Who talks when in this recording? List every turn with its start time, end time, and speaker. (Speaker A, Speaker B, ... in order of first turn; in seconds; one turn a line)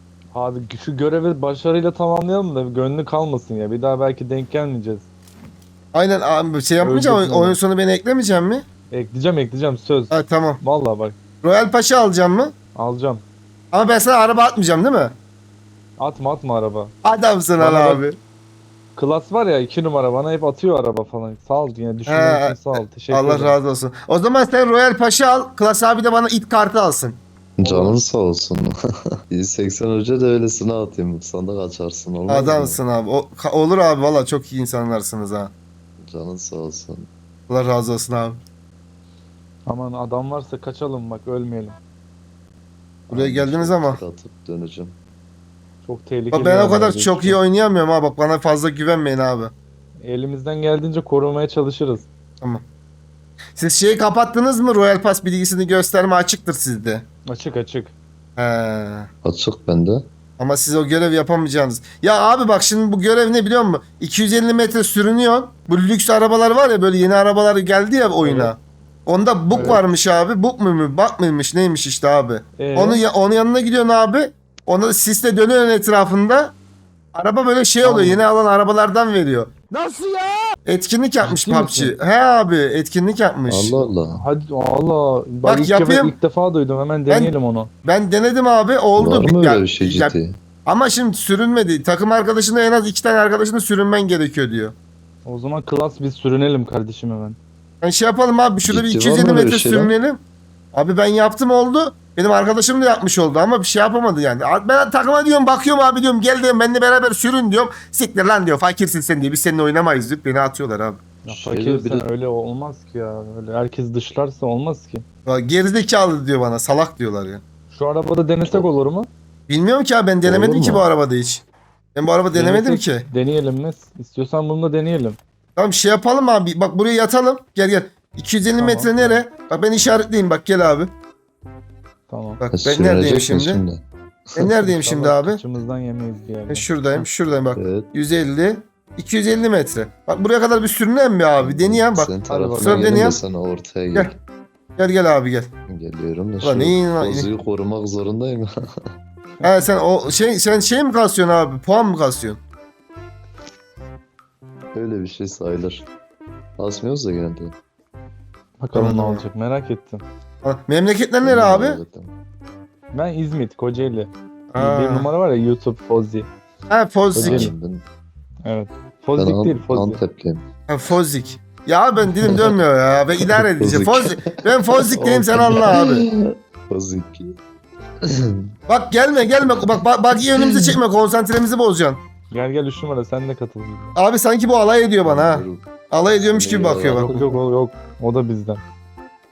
Speaker A: 0.3-5.0
Speaker B: 5.9-8.6
Speaker A: 6.8-7.6
Speaker A: 8.9-11.2
Speaker B: 10.1-10.6
Speaker B: 11.4-12.5
Speaker A: 12.8-13.2
Speaker B: 13.7-15.2
Speaker A: 16.0-16.9
Speaker B: 17.0-18.2
Speaker A: 17.6-18.0
Speaker A: 18.9-23.6
Speaker B: 22.1-27.2
Speaker C: 27.6-32.8
Speaker A: 27.6-28.0
Speaker B: 32.3-35.5
Speaker C: 36.0-37.1
Speaker B: 37.5-38.4
Speaker A: 39.7-41.8
Speaker C: 43.1-45.0
Speaker B: 43.1-44.0
Speaker A: 45.8-47.4
Speaker B: 46.3-49.5
Speaker A: 50.0-52.0
Speaker B: 53.6-57.0
Speaker A: 57.3-57.9
Speaker B: 58.4-59.1
Speaker C: 59.2-60.1
Speaker B: 60.4-76.5
Speaker A: 68.2-68.5
Speaker A: 69.5-69.8
Speaker A: 72.6-73.0
Speaker B: 77.1-83.8
Speaker A: 77.8-78.2
Speaker A: 81.2-81.9
Speaker C: 83.5-84.2
Speaker A: 84.1-87.7
Speaker B: 85.4-86.1
Speaker B: 87.1-87.3
Speaker B: 87.8-94.8
Speaker C: 89.0-90.3
Speaker A: 95.2-97.4
Speaker B: 97.8-100.2
Speaker C: 98.6-99.9
Speaker B: 100.7-111.0
Speaker A: 111.2-115.0
Speaker C: 111.3-112.1
Speaker B: 115.2-117.4
Speaker A: 117.7-119.1
Speaker B: 119.5-121.4
Speaker C: 120.2-120.8
Speaker B: 121.9-123.0
Speaker A: 122.3-125.2
Speaker B: 125.5-130.9
Speaker A: 128.6-129.2
Speaker A: 132.1-132.4
Speaker B: 132.4-133.6
Speaker C: 132.5-134.5
Speaker B: 134.4-135.4
Speaker A: 134.6-137.1
Speaker B: 136.5-143.2
Speaker C: 137.6-137.9
Speaker C: 141.4-144.2
Speaker A: 142.3-143.1
Speaker B: 144.8-145.5
Speaker C: 145.7-148.9
Speaker B: 146.4-147.3
Speaker B: 149.4-152.4
Speaker C: 154.7-155.9
Speaker C: 156.6-157.6
Speaker A: 158.6-160.0
Speaker B: 158.8-159.2
Speaker B: 160.4-161.8
Speaker C: 161.2-162.2
Speaker A: 162.9-166.3
Speaker B: 164.5-165.1
Speaker B: 166.7-167.5
Speaker C: 167.1-167.8
Speaker A: 167.2-167.5
Speaker A: 168.4-170.0
Speaker C: 169.2-170.4
Speaker B: 170.7-176.1
Speaker C: 172.2-172.6
Speaker C: 173.2-177.4
Speaker A: 175.1-175.7
Speaker C: 178.0-178.5
Speaker B: 178.7-182.0
Speaker C: 179.4-180.8
Speaker A: 182.3-183.9
Speaker B: 183.9-187.0
Speaker C: 185.0-185.7
Speaker C: 186.3-187.4
Speaker A: 186.9-188.6